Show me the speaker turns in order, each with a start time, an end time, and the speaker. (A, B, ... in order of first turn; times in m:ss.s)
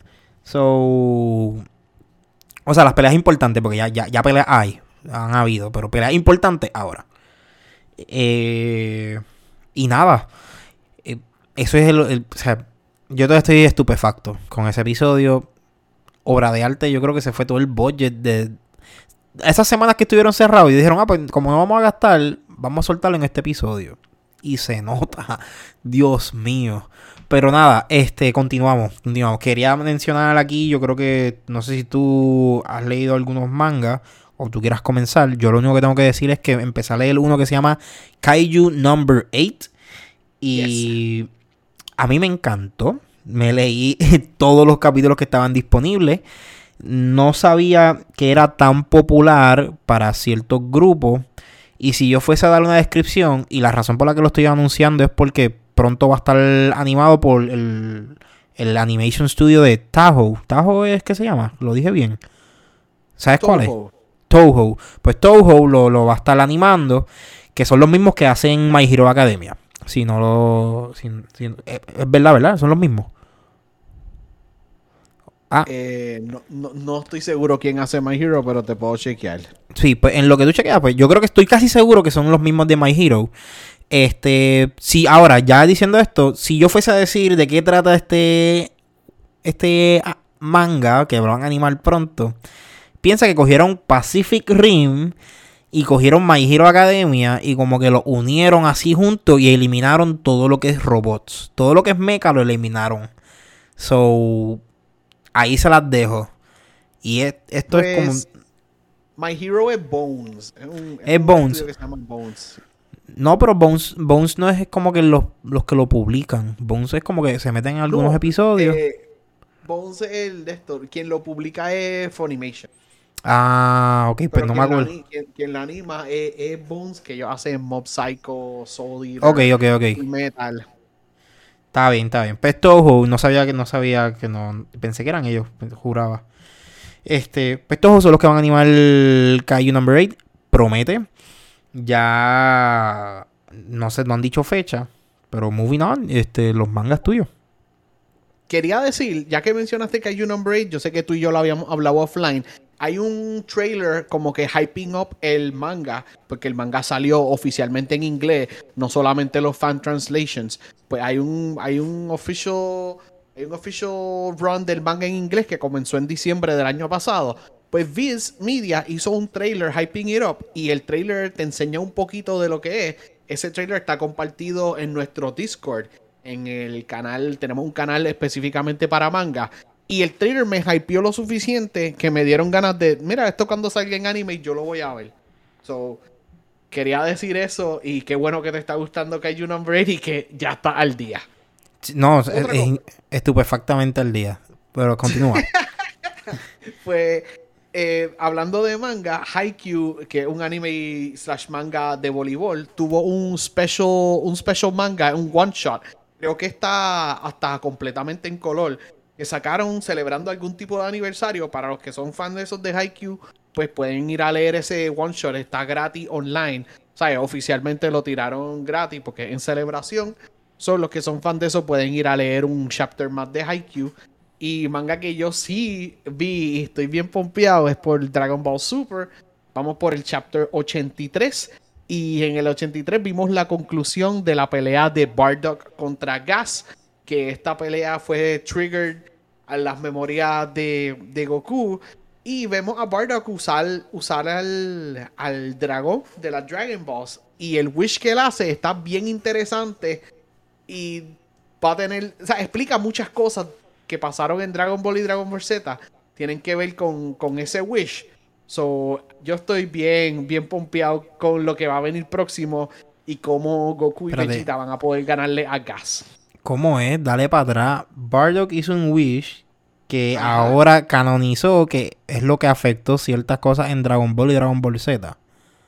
0:00.4-0:01.6 A
0:02.7-0:07.0 A
0:08.0-0:09.2 A
0:09.8-0:10.3 A
0:11.0-0:15.5 A
0:16.2-0:18.6 A
0:19.4-0:39.7 A
0:40.4-0:41.3 A
0:40.5-0:40.9 B
0:42.0-0:46.2 A
0:46.8-0:51.3 A
0:51.8-1:02.2 A
1:03.2-1:03.7 A
1:03.4-1:03.9 B
1:04.3-1:13.1 A
1:15.6-1:19.5 B
1:19.7-1:23.3 A
1:23.9-1:28.7 A
1:29.4-1:32.4 A
1:33.0-1:35.2 A
1:35.7-1:43.1 A
1:43.8-1:44.6 A
1:45.4-1:46.3 A
1:47.0-1:48.2 A
1:47.7-1:48.3 B
1:49.2-1:52.6 B
1:51.1-1:51.6 A
1:53.1-1:58.8 A
1:57.9-1:59.0 B
1:59.6-2:02.7 B
2:03.2-2:04.9 A
2:04.3-2:10.6 B
2:09.2-2:10.0 A
2:11.7-2:16.2 A
2:17.1-2:21.0 A
2:21.7-2:27.3 A
2:28.5-3:06.0 B
3:06.7-3:11.2 B
3:11.8-3:15.4 A
3:12.3-3:12.7 B
3:15.1-3:15.6 B
3:16.3-4:10.0 B
4:10.7-4:26.0 B
4:24.1-4:24.4 A
4:26.4-4:35.2 A
4:30.1-4:30.6 B